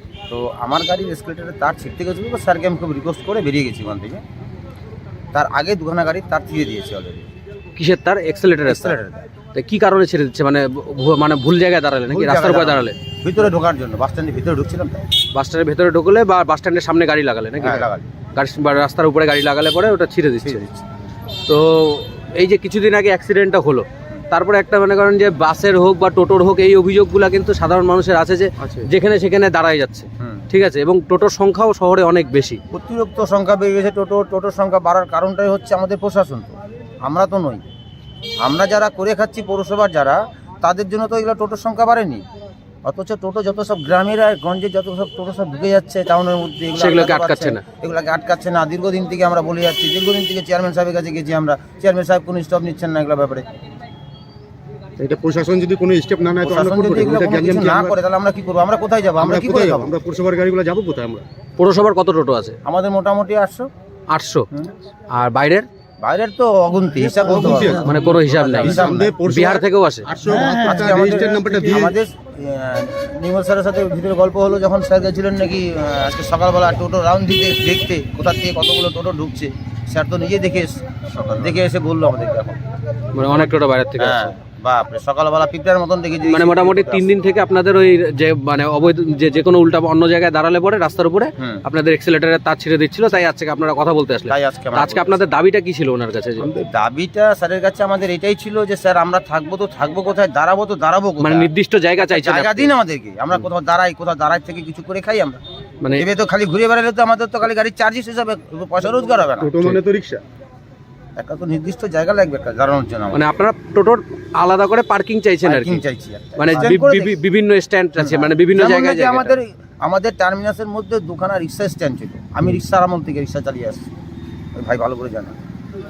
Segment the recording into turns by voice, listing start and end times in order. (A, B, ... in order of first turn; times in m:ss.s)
0:00.3-0:04.2 A
0:05.3-0:07.3 A
0:07.8-0:09.0 B
0:08.7-0:09.3 A
0:09.6-0:13.0 B
0:12.1-0:15.1 A
0:15.3-0:20.6 B
0:17.6-0:18.1 A
0:20.4-0:20.8 A
0:21.5-0:32.6 B
0:28.6-0:28.9 C
0:32.7-0:37.6 A
0:38.4-0:42.2 A
0:42.8-0:53.5 A
0:46.8-0:47.6 B
0:55.0-0:58.0 C
0:56.4-0:59.9 A
0:59.2-1:01.2 C
1:01.6-1:02.6 B
1:02.6-1:03.7 A
1:04.1-1:04.5 B
1:05.1-1:05.7 B
1:06.0-1:09.2 A
1:07.2-1:12.0 C
1:07.8-1:10.1 B
1:10.4-1:22.6 A
1:23.2-1:24.3 B
1:24.0-1:27.1 A
1:26.3-1:36.5 B
1:34.3-1:35.2 A
1:36.4-1:36.7 C
1:36.7-1:41.5 A
1:41.2-1:42.7 B
1:42.0-1:45.4 A
1:45.8-1:46.1 B
1:46.0-1:49.6 A
1:49.4-1:50.2 C
1:51.2-1:53.3 A
1:53.1-1:55.8 B
1:55.4-1:57.2 A
1:56.4-1:59.4 B
1:58.0-2:03.9 A
2:04.6-2:05.4 A